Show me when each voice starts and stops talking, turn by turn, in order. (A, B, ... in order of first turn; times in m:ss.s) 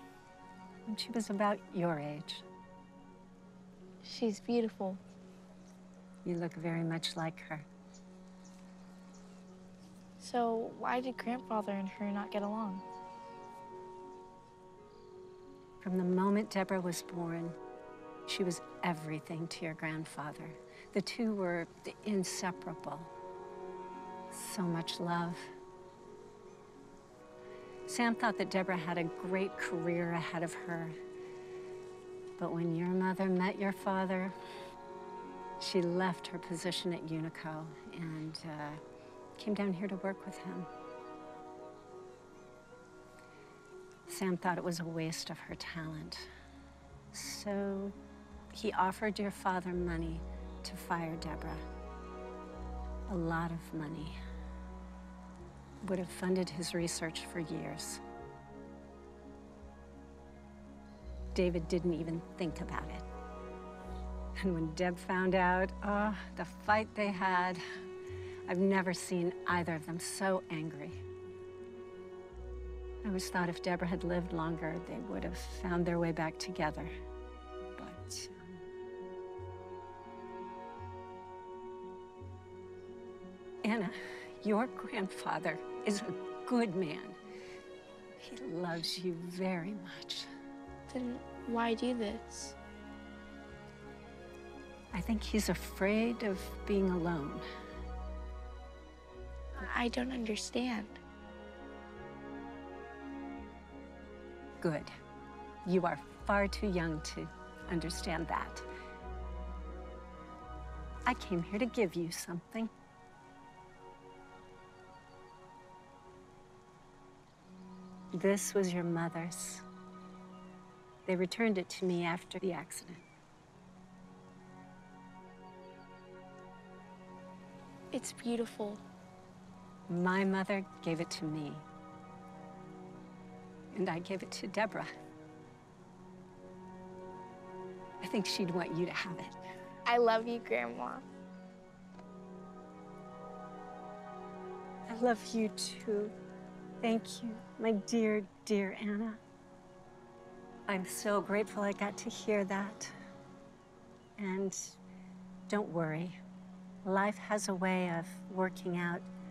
0:00.8-0:02.4 A
0:04.0-0:05.0 B
0:06.2-0:07.7 A
0:10.2-0:12.8 B
0:15.8-0:17.6 A
0:18.3-0:23.1 A
0:24.3-0:25.5 A
0:27.9-0:31.0 A
0:32.4-0:34.3 A
0:35.6-0:38.8 A
0:39.4-0:40.7 A
0:44.1-0:46.3 A
0:47.1-0:48.0 A
0:48.5-0:51.6 A
0:53.1-0:54.2 A
0:55.8-0:58.0 A
1:01.3-1:03.0 A
1:04.4-1:07.6 A
1:08.5-1:11.0 A
1:13.0-1:16.9 A
1:17.8-1:18.5 A
1:23.6-1:27.2 A
1:28.2-1:30.3 A
1:30.9-1:32.6 B
1:34.9-1:37.4 A
1:39.6-1:41.0 B
1:44.6-1:44.9 A
1:45.6-1:48.6 A
1:51.1-1:52.7 A
1:58.1-1:59.6 A
2:01.0-2:03.0 A
2:07.9-2:08.8 B
2:09.9-2:11.6 A
2:13.7-2:14.9 A
2:18.0-2:19.4 A
2:19.8-2:21.0 B
2:24.9-2:26.1 A
2:26.8-2:29.2 A
2:30.7-2:32.9 A
2:34.2-2:34.8 A
2:35.5-2:36.2 A
2:36.8-2:39.1 A